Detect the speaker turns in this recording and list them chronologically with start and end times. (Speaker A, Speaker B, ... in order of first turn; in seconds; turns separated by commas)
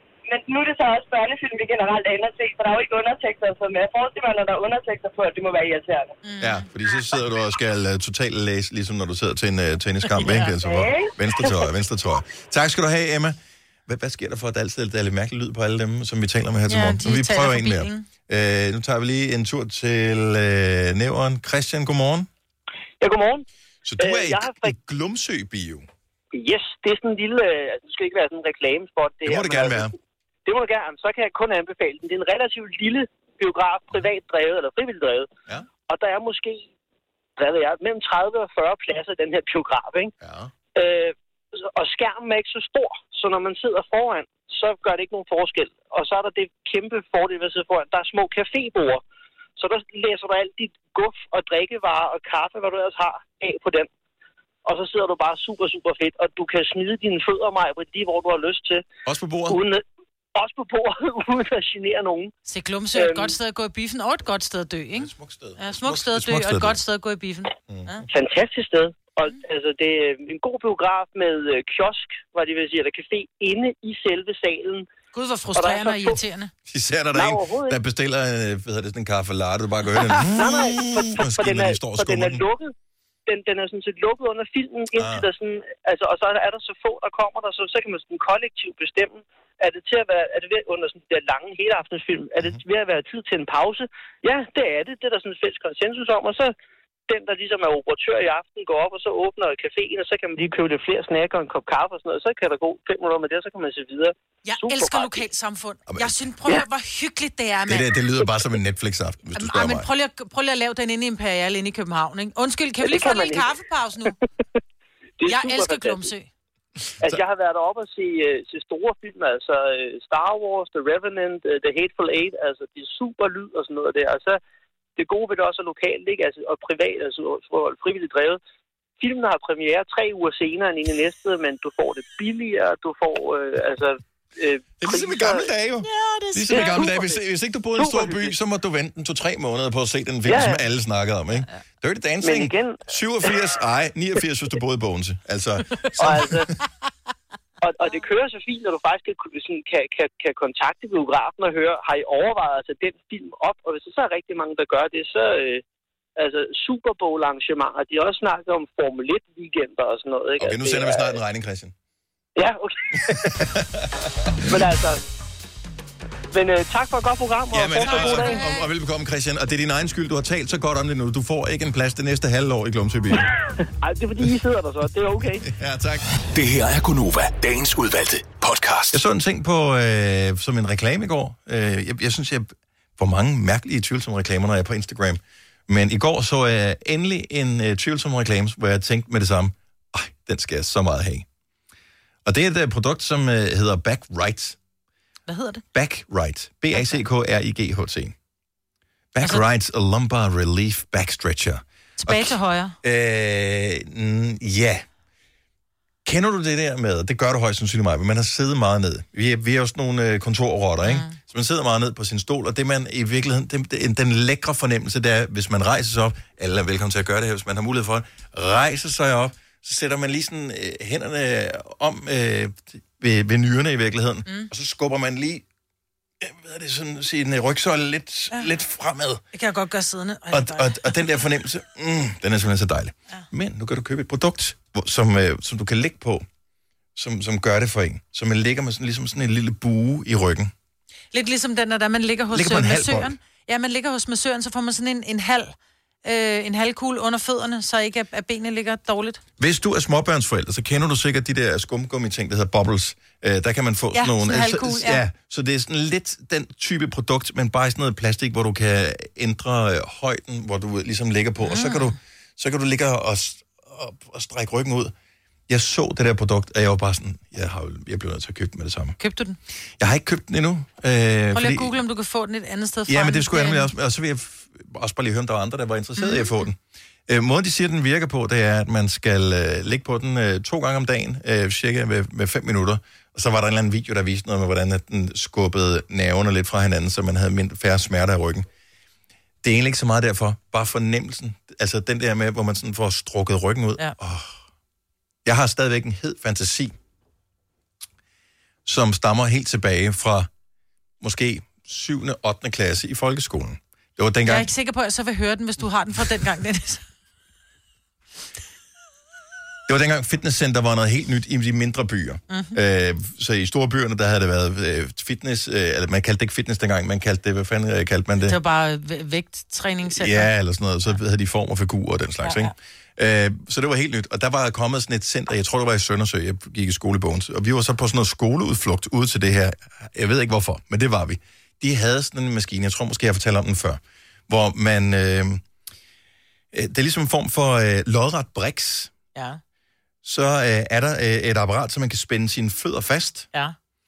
Speaker A: 0.3-6.2, Speaker B: 6.2-6.7, Speaker C: 6.4-22.3, Speaker B: 10.1-10.5, Speaker A: 10.7-11.5, Speaker B: 16.7-18.1, Speaker D: 23.0-23.5, Speaker C: 23.8-25.9, Speaker D: 24.0-24.7, Speaker D: 26.3-29.9, Speaker C: 29.2-29.9, Speaker D: 30.5-35.3, Speaker D: 35.9-36.7, Speaker D: 37.4-40.1, Speaker C: 40.2-40.5, Speaker D: 40.8-41.1, Speaker D: 41.7-49.0, Speaker D: 49.6-53.9, Speaker D: 54.6-58.8, Speaker C: 59.1-59.6, Speaker D: 59.5-59.8, Speaker D: 60.4-62.3, Speaker B: 62.5-68.1, Speaker D: 62.9-63.4, Speaker C: 64.9-66.8, Speaker C: 67.7-68.0, Speaker D: 68.1-74.9, Speaker B: 75.1-76.5, Speaker D: 75.5-76.2, Speaker C: 76.7-82.4, Speaker D: 77.2-77.8, Speaker D: 80.2-82.7, Speaker D: 83.3-96.5, Speaker C: 85.0-85.2, Speaker D: 97.1-105.2, Speaker B: 104.5-108.0, Speaker C: 105.9-106.2, Speaker C: 107.7-109.9, Speaker B: 109.3-114.2, Speaker D: 112.8-113.5, Speaker D: 115.2-116.1, Speaker B: 115.3-116.3, Speaker D: 117.0-124.4, Speaker D: 125.0-128.4, Speaker D: 129.0-135.5, Speaker C: 134.8-146.3, Speaker B: 135.8-137.2, Speaker D: 136.5-137.1, Speaker D: 137.8-138.3, Speaker D: 140.3-140.6, Speaker D: 142.2-143.4, Speaker D: 146.0-146.5, Speaker D: 147.6-155.6, Speaker D: 156.2-161.2, Speaker C: 160.4-161.7, Speaker D: 162.4-163.3, Speaker C: 163.1-164.5, Speaker D: 164.4-165.0, Speaker D: 166.3-168.4, Speaker C: 167.5-173.3, Speaker B: 167.8-168.7, Speaker D: 173.8-175.4, Speaker C: 175.5-176.1, Speaker E: 176.3-179.0, Speaker C: 178.9-191.3, Speaker C: 192.2-194.6, Speaker B: 195.3-195.6, Speaker C: 195.7-198.1, Speaker C: 199.1-204.8, Speaker B: 202.0-202.8, Speaker C: 206.1-225.4, Speaker B: 210.9-211.2, Speaker C: 226.2-229.2, Speaker B: 229.3-231.0, Speaker C: 230.3-236.2, Speaker C: 237.0-240.5, Speaker B: 241.1-249.2, Speaker C: 242.3-243.2, Speaker C: 249.4-264.9, Speaker B: 253.9-255.0, Speaker B: 261.4-261.9, Speaker C: 265.5-269.0, Speaker B: 269.0-269.4, Speaker C: 269.8-271.8, Speaker B: 271.3-273.7, Speaker C: 272.9-288.5, Speaker B: 276.0-276.4, Speaker C: 289.4-294.4, Speaker C: 295.2-296.7, Speaker C: 298.7-300.3, Speaker C: 301.0-304.5, Speaker B: 304.3-306.8, Speaker C: 309.7-318.4, Speaker B: 312.3-312.6, Speaker B: 318.2-320.3, Speaker C: 319.9-335.4, Speaker B: 322.2-322.5, Speaker C: 336.5-338.9, Speaker B: 339.1-339.4, Speaker C: 340.0-343.3